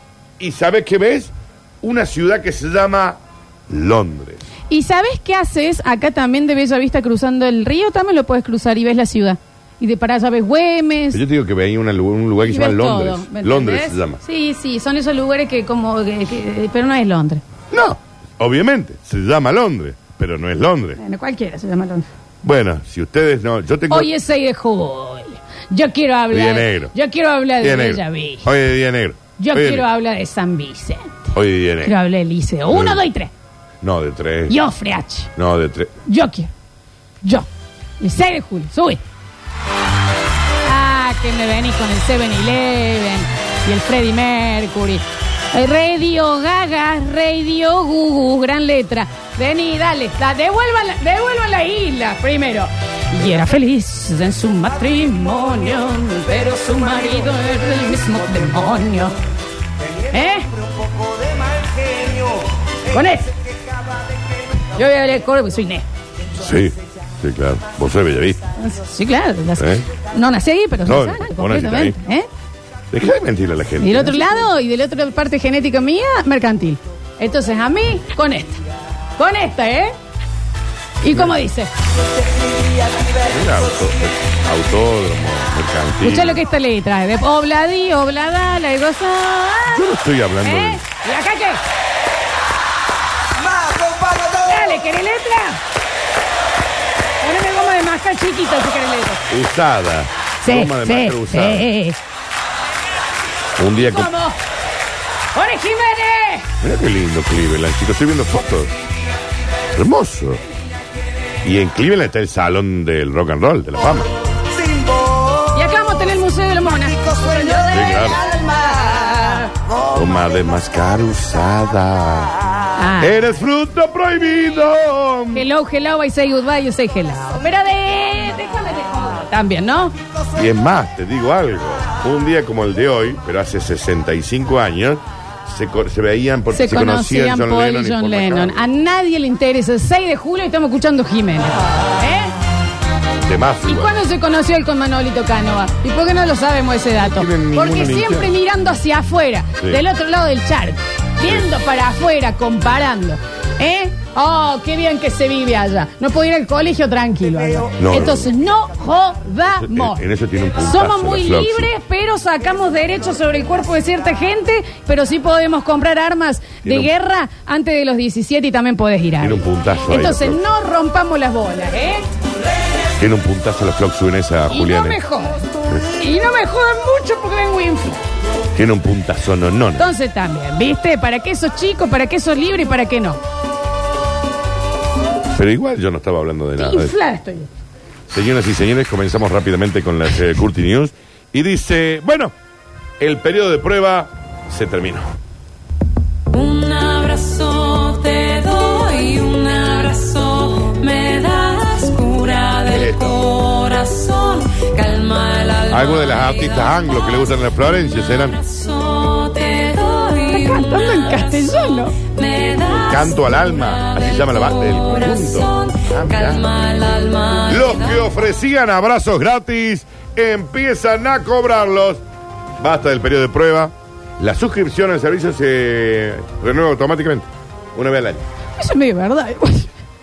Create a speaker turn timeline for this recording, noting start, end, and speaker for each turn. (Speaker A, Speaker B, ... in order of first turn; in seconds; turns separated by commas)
Speaker A: 0.4-4.5, Speaker B: 4.7-11.2, Speaker A: 11.1-14.2, Speaker B: 12.4-17.4, Speaker A: 17.7-21.0, Speaker B: 21.0-22.1, Speaker A: 22.4-24.1, Speaker B: 23.9-28.5, Speaker A: 26.3-26.9, Speaker A: 27.6-29.9, Speaker B: 29.4-33.3, Speaker A: 31.3-31.9, Speaker A: 32.7-33.0, Speaker A: 33.8-34.6, Speaker B: 34.5-35.3, Speaker A: 35.4-35.9, Speaker B: 36.0-36.5, Speaker B: 37.2-37.5, Speaker B: 38.0-39.0, Speaker B: 40.6-59.1, Speaker B: 60.1-60.5, Speaker B: 62.9-63.4, Speaker B: 64.6-65.8, Speaker A: 66.3-68.5, Speaker B: 68.6-72.3, Speaker A: 69.6-69.8, Speaker A: 70.8-72.0, Speaker A: 72.9-74.5, Speaker B: 73.8-78.6, Speaker B: 79.2-79.9, Speaker B: 81.0-81.7, Speaker A: 81.1-81.4, Speaker A: 83.2-86.4, Speaker B: 86.0-91.6, Speaker A: 89.7-90.8, Speaker B: 94.1-95.6, Speaker B: 97.2-99.2, Speaker A: 99.3-101.7, Speaker B: 100.4-102.0, Speaker A: 103.6-104.1, Speaker B: 103.7-104.4, Speaker B: 105.3-106.5, Speaker A: 106.6-108.8, Speaker A: 109.7-110.4, Speaker A: 111.4-114.1, Speaker B: 115.5-119.5, Speaker A: 117.7-118.2, Speaker A: 119.7-122.3, Speaker B: 122.8-123.2, Speaker A: 123.0-125.5, Speaker B: 125.3-129.9, Speaker A: 130.3-138.7, Speaker B: 136.5-142.3, Speaker A: 143.2-143.9, Speaker B: 143.6-160.0, Speaker A: 147.0-148.3, Speaker A: 157.8-158.3, Speaker A: 159.5-161.7, Speaker B: 160.6-172.0, Speaker A: 166.6-166.9, Speaker A: 169.2-170.4, Speaker A: 173.0-175.0, Speaker B: 174.5-175.4, Speaker B: 175.9-178.0, Speaker A: 178.5-179.9, Speaker B: 179.8-183.2, Speaker A: 185.3-186.9, Speaker B: 186.6-187.5, Speaker A: 188.1-192.3, Speaker A: 193.0-195.1, Speaker C: 196.3-207.2, Speaker A: 202.7-203.2, Speaker A: 205.7-208.4, Speaker C: 208.1-218.1, Speaker B: 210.2-211.9, Speaker A: 212.8-216.5, Speaker A: 217.5-222.0, Speaker A: 222.6-228.2, Speaker B: 228.6-229.7